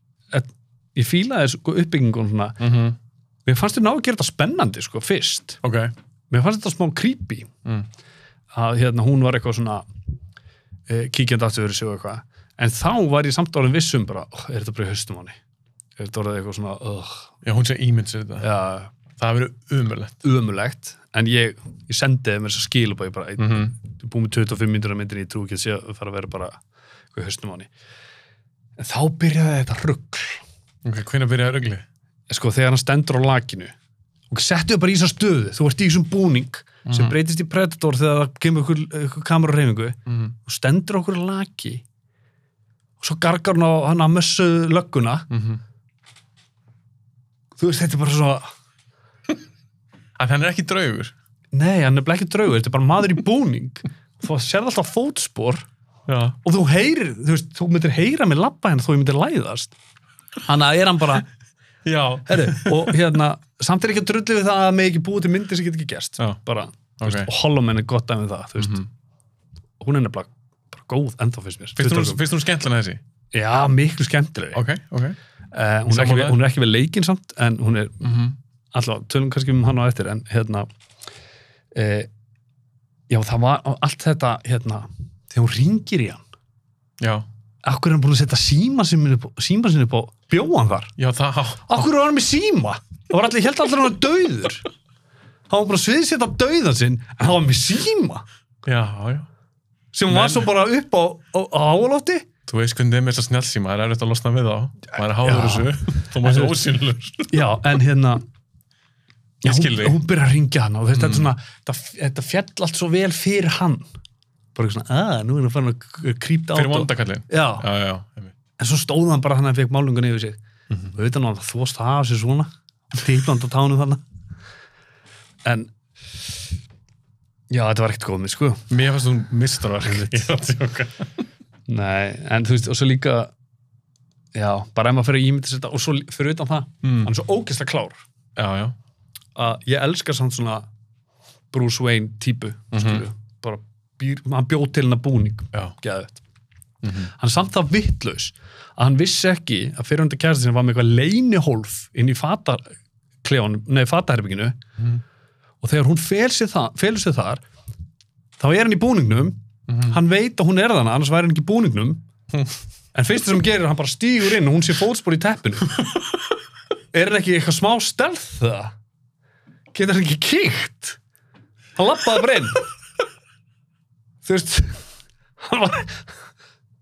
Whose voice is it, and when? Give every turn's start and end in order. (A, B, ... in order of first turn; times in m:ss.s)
0:00.3-0:02.7 A
0:02.6-0:03.0 B
0:03.4-0:05.6 A
0:05.6-0:05.9 B
0:06.3-0:07.5 A
0:08.5-0:09.8 A
0:10.9-0:15.4 A
0:16.0-0:17.3 A
0:17.4-0:18.5 B
0:18.4-0:18.9 A
0:19.2-0:20.1 B
0:20.2-0:26.6 A
0:23.4-0:23.7 B
0:27.1-0:27.7 A
0:28.8-0:30.4 A
0:30.8-0:31.8 B
0:32.3-0:33.7 A
0:34.3-0:41.8 A
0:36.8-0:37.2 B
0:40.1-0:40.3 B
0:43.0-0:45.3 A
0:45.3-0:45.6 B
0:47.6-0:48.5 A
0:50.2-0:51.1 B
0:51.5-0:55.7 A
0:56.1-0:56.4 B
0:56.4-0:59.7 A
1:00.4-1:01.3 A
1:01.8-1:03.0 B
1:02.2-1:08.8 A
1:07.0-1:07.3 B
1:08.6-1:08.9 B
1:09.8-1:12.2 A
1:11.8-1:13.0 B
1:13.3-1:14.6 A
1:14.5-1:15.2 B
1:15.5-1:18.1 A
1:15.9-1:16.4 B
1:18.0-1:18.4 B
1:18.7-1:20.7 A
1:21.7-1:22.1 A
1:23.1-1:26.2 A
1:27.0-1:27.2 B
1:27.6-1:30.9 A
1:31.0-1:31.7 B
1:31.7-1:34.6 A
1:35.5-1:38.2 A
1:38.6-1:39.3 B
1:39.9-1:42.2 A
1:40.1-1:40.5 B
1:42.5-1:47.6 B
1:44.9-1:46.6 A
1:47.3-1:48.2 A
1:49.4-1:50.0 B
1:49.4-1:53.8 A
1:50.9-1:51.3 B
1:54.5-1:57.7 A
1:56.5-1:58.3 B
1:58.6-2:00.4 A
2:00.9-2:04.0 A
2:05.4-2:05.7 A
2:07.5-2:08.7 A
2:08.7-2:11.2 B
2:09.8-2:10.3 A
2:11.7-2:13.3 A
2:14.3-2:18.0 A
2:16.8-2:17.1 B
2:18.4-2:18.8 B
2:19.3-2:20.7 A
2:21.5-2:26.2 A
2:22.7-2:23.0 B
2:26.8-2:27.1 B
2:27.0-2:32.6 A
2:33.2-2:34.6 A
2:35.6-2:37.4 A
2:38.4-2:42.0 A
2:39.7-2:40.0 B
2:42.9-2:45.8 A
2:46.9-2:48.7 A
2:49.7-2:51.0 A
2:51.8-2:52.6 A
2:54.2-2:54.8 A
2:55.4-2:56.1 A